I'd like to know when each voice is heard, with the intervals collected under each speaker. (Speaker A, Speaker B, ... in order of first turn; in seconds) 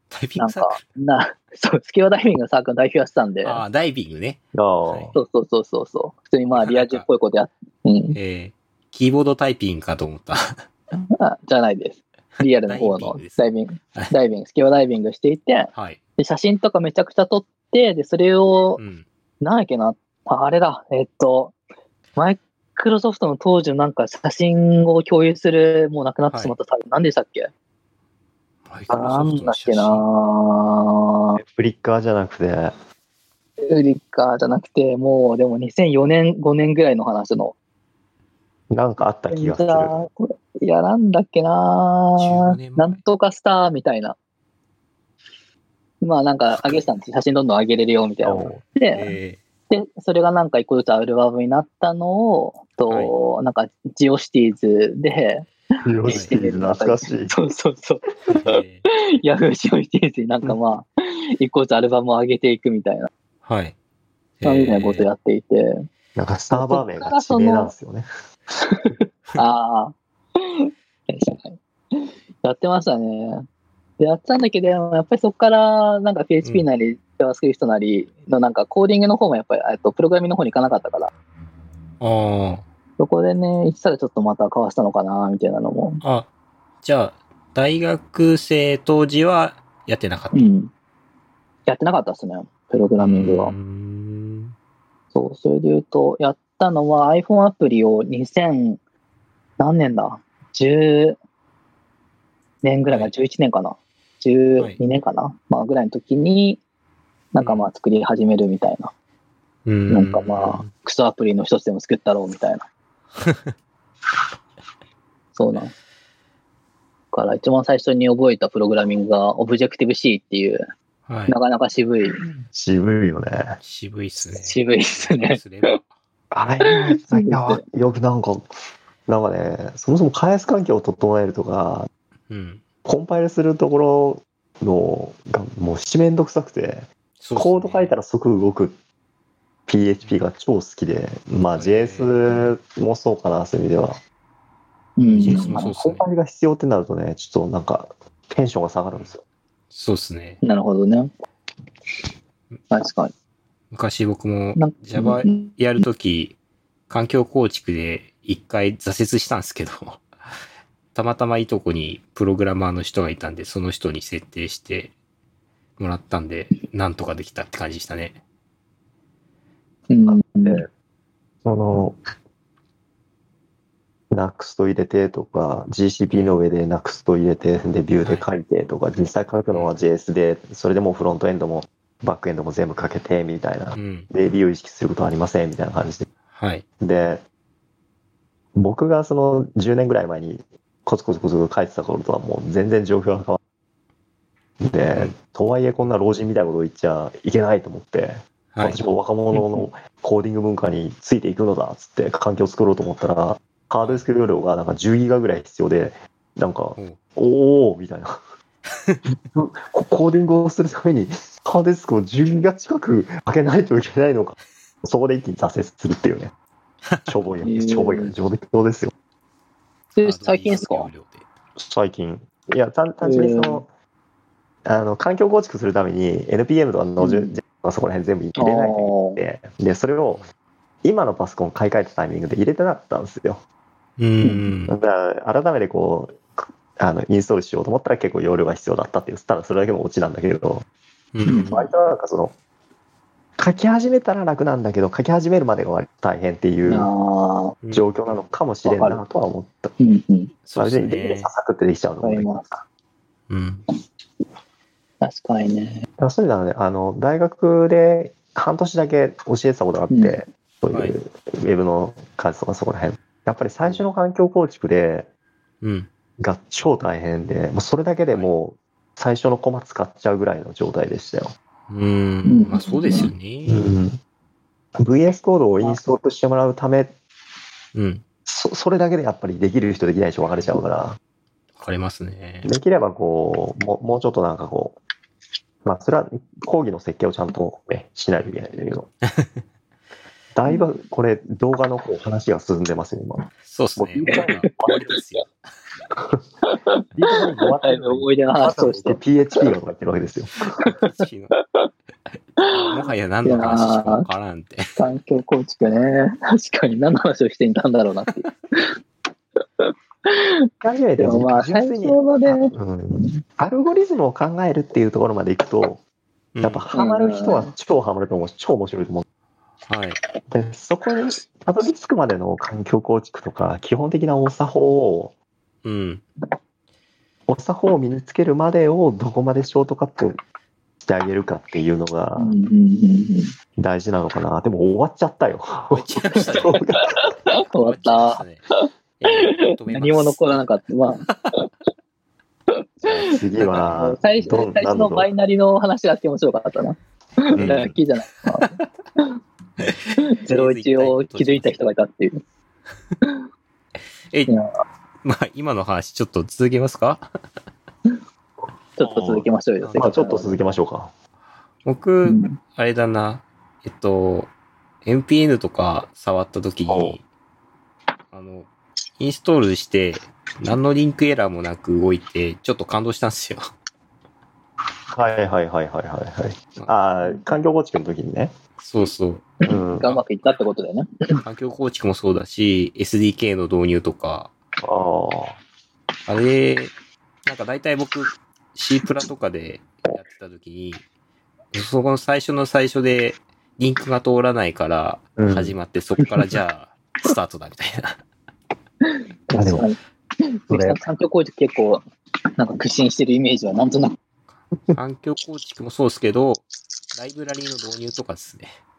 Speaker A: 0.1-0.8, 3.4-5.2, 6.5-7.0, 8.1-10.7, 12.4-14.1, 15.7-16.0, 18.8-19.1, 26.3-26.6, 28.7-30.0, 42.1-43.0, 48.9-49.4, 52.9-53.1, 58.3-58.8, 63.4-63.8, 64.4-65.0, 82.0-82.6, 86.0-86.3, 86.8-90.4, 93.0-94.5, 107.4-107.7, 109.7-110.7, 113.2-113.5, 121.1-121.3, 123.6-125.9, 132.3-132.6, 137.2-137.9, 141.6-142.2, 145.0-146.0, 149.7-150.4, 153.7-156.3, 156.9-160.1, 160.9-164.9, 165.8-168.2, 176.1-176.4, 178.0-178.3, 183.7-184.1, 186.3-186.6, 198.5-198.8, 203.8-204.1, 216.8-217.1, 220.0-221.2, 234.0-234.8, 241.1-241.7, 247.6-247.9, 250.4-251.3, 253.3-253.6, 265.6-265.9, 271.7-273.7, 277.7-278.0, 281.6-282.5, 289.1-289.4, 293.4-295.3, 300.7-301.3, 302.4-304.8, 316.3-316.7, 319.7-320.0, 325.6-326.0, 335.7-336.6, 337.3-338.4, 339.0-340.4, 341.1-341.3, 343.4-343.7, 347.4-347.7, 349.6-351.6, 355.0-357.1, 359.6-359.9, 361.6-364.3, 364.8-367.0, 368.1-373.4, 378.6-380.0, 381.2-384.3, 386.1-386.7, 387.2-390.8, 391.5-398.0, 404.7-408.6
Speaker B: 0.4-3.6, 5.1-8.2, 11.1-18.8, 19.4-21.5, 22.1-27.5, 28.9-31.4, 33.6-37.5, 39.3-44.2, 46.0-49.1, 49.7-55.5, 56.0-63.1, 64.4-65.8, 66.5-67.7, 68.6-73.4, 74.0-81.1, 83.0-86.0, 90.3-90.7, 91.7-93.5, 95.1-98.8, 99.6-101.2, 102.6-106.6, 107.3-108.9, 109.9-112.6, 115.3-115.7, 117.1-120.6, 121.3-122.2, 124.3-125.8, 126.7-127.6, 145.0-145.7, 150.4-151.1, 152.7-153.1, 154.6-155.6, 169.9-170.6, 199.3-199.7, 217.4-218.1, 219.9-220.9, 223.0-223.6, 227.0-227.3, 228.4-229.2, 234.2-234.5, 241.2-241.6, 246.7-247.6, 248.6-249.0, 249.8-250.3, 252.0-252.6, 255.0-255.9, 259.9-260.2, 272.2-273.1, 290.5-290.7, 296.5-299.4, 300.6-301.7, 302.4-304.1, 304.8-308.8, 309.6-313.2, 316.7-317.5, 332.2-333.3, 336.8-341.5, 342.5-349.1, 350.0-352.2, 358.8-360.4, 362.0-362.4, 379.4-381.2, 398.8-401.8, 402.4-404.0
Speaker C: 4.5-5.2, 31.3-32.7, 38.7-39.9, 48.2-48.6, 55.8-57.3, 66.1-68.1, 122.5-123.6, 126.3-128.5, 129.1-131.9, 132.8-138.8, 139.7-144.0, 145.3-149.2, 170.0-170.7, 171.4-172.0, 174.1-186.1, 186.8-187.2, 188.5-193.4, 194.6-208.2, 209.1-216.3, 217.1-218.9, 221.6-223.7, 224.6-230.2, 230.8-233.4, 234.7-240.7, 241.4-242.3, 243.4-246.9, 247.7-249.7, 250.6-252.3, 256.0-265.1, 266.2-271.3, 273.5-274.0, 274.8-276.9, 278.2-281.0, 282.4-284.8, 285.6-288.9, 290.3-294.9, 296.9-300.6, 310.6-315.8, 316.4-319.0, 320.3-325.1, 327.3-330.2, 330.8-332.4, 333.6-337.1, 342.9-345.1, 347.4-347.7, 358.8-360.9, 366.7-367.0, 374.9-378.3, 379.4-379.9, 384.6-385.4, 395.2-395.6, 399.3-399.7, 400.5-400.8